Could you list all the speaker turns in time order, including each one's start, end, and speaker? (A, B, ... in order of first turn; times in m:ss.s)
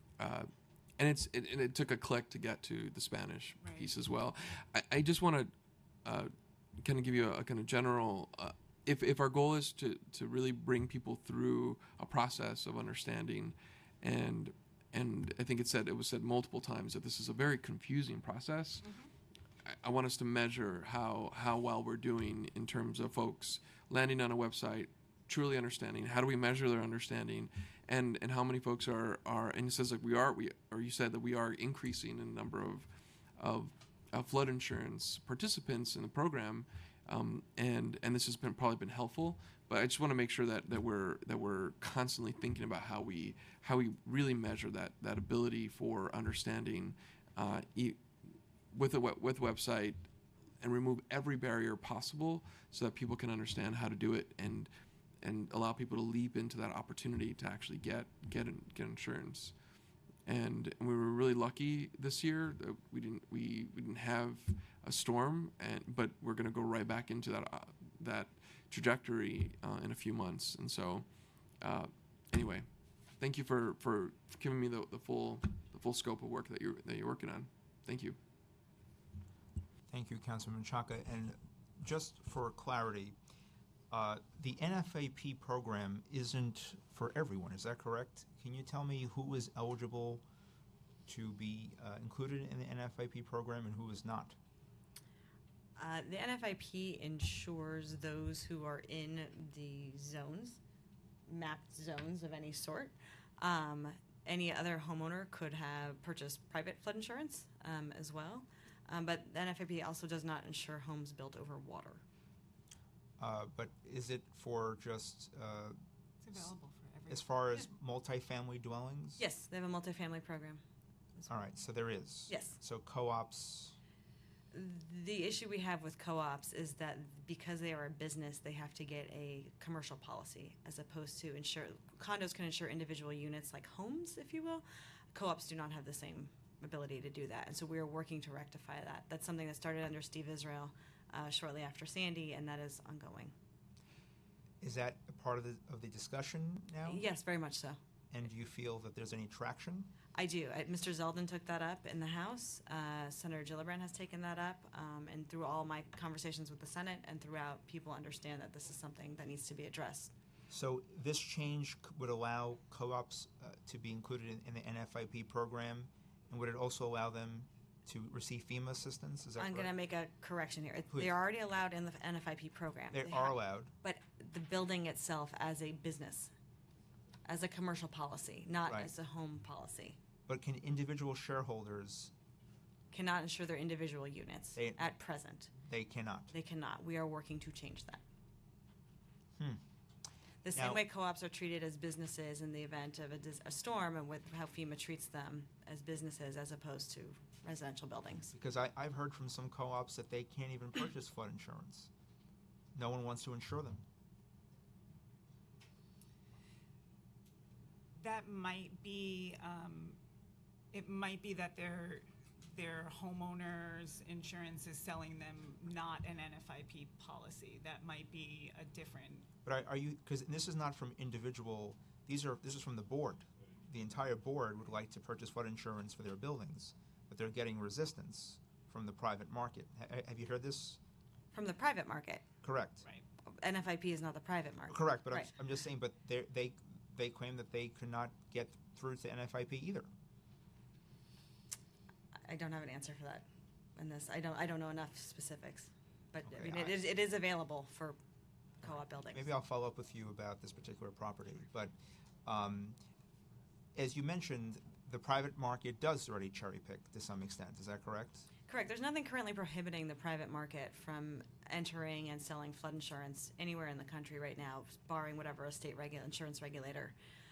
0:00.2-0:18.9 A
0:03.6-0:03.9 B
0:18.8-0:19.1 B
0:19.6-0:59.6 A
1:00.2-1:18.2 A
1:19.9-1:23.2 C
1:23.9-1:30.2 C
1:31.1-1:34.4 C
1:35.8-1:40.6 D
1:41.3-1:52.0 D
1:53.2-1:55.8 C
1:56.2-1:57.7 B
1:57.1-1:59.2 C
1:59.2-2:00.6 D
2:01.3-2:03.8 C
2:02.3-2:02.6 D
2:04.5-2:23.4 D
2:24.6-2:27.0 C
2:26.9-2:27.8 D
2:28.1-2:30.0 C
2:30.2-2:40.1 D
2:40.5-2:49.7 C
2:49.4-2:56.3 D
2:52.9-2:53.7 C
2:57.3-3:00.0 D
2:58.7-2:58.9 C
3:00.3-3:02.1 C
3:02.9-3:05.5 D
3:04.6-3:04.9 C
3:05.6-3:06.3 C
3:06.3-3:08.0 D
3:09.4-3:09.6 C
3:10.4-3:18.3 D
3:10.5-3:10.8 C
3:18.3-3:21.9 C
3:22.8-3:23.8 C
3:28.0-3:30.0 B
3:30.7-3:39.3 B
3:39.4-3:50.8 C
3:51.3-3:52.2 D
3:52.4-3:52.9 C
3:53.3-3:55.3 D
3:54.7-3:59.9 C
4:02.2-4:08.0 D
4:06.3-4:06.8 C
4:08.6-4:09.3 D
4:09.1-4:12.8 C
4:13.8-4:18.3 C
4:18.5-4:26.9 D